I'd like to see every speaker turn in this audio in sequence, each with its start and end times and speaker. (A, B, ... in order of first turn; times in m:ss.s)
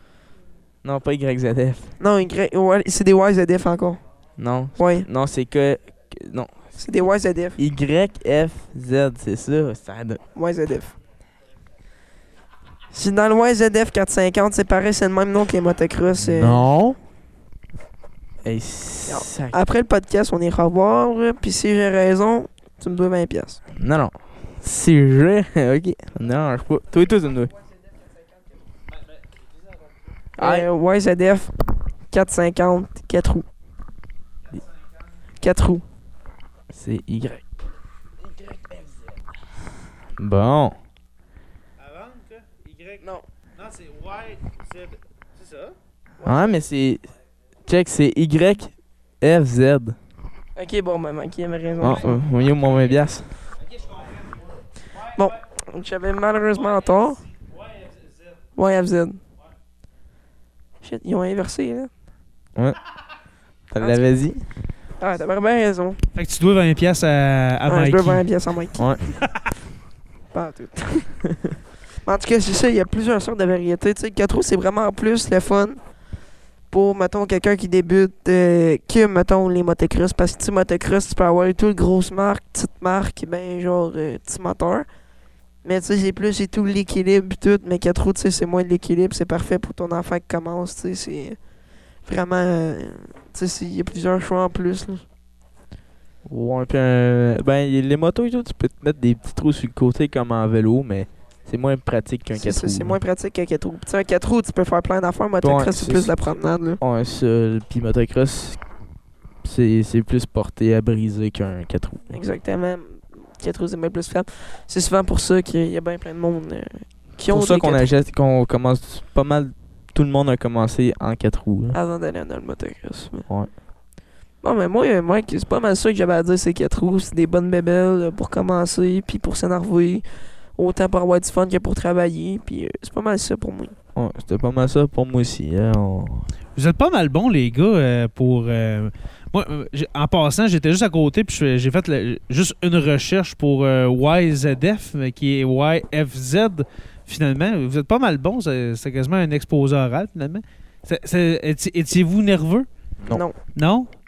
0:00.8-0:01.9 A
0:02.0-0:04.0 B
0:04.4-0:06.5 A
0:04.8-0:05.1 B
0:06.8-0:07.6 B
0:07.6-0:10.2 A
0:10.4-0:11.0 B
0:12.9-0:16.6 B
0:16.2-0:17.0 A
0:18.4-0:19.6 A
0:19.1-0:23.6 B
0:23.8-0:27.5 A
0:30.4-0:31.5 B
0:30.4-0:30.7 A
0:32.1-0:33.5 B
0:35.4-0:35.8 B
0:36.7-0:37.4 A
0:40.2-0:40.8 A
0:41.8-0:43.0 C
0:43.0-0:43.3 B
0:43.6-0:45.7 C
0:46.2-0:46.6 B
0:46.2-0:47.1 A
0:47.7-0:50.0 A
0:50.6-0:52.2 B
0:51.8-0:53.3 A
0:55.1-0:57.2 B
0:58.6-0:59.2 B
1:00.8-1:01.9 B
1:03.7-1:04.5 A
1:05.0-1:06.0 B
1:06.2-1:08.2 C
1:07.7-1:08.8 B
1:08.8-1:09.1 A
1:10.3-1:11.3 B
1:12.0-1:15.8 B
1:16.7-1:24.8 B
1:25.6-1:31.4 B
1:32.1-1:35.0 B
1:36.3-1:43.0 A
1:42.4-1:46.8 B
1:45.4-1:46.1 A
1:46.8-1:48.6 A
1:49.4-1:52.2 A
1:52.1-1:57.9 B
1:57.3-2:01.8 A
2:01.7-2:03.3 B
2:04.4-2:10.0 B
2:10.6-2:13.8 B
2:14.0-2:16.3 A
2:16.6-2:32.7 C
2:33.1-2:33.4 B
2:33.5-2:33.9 C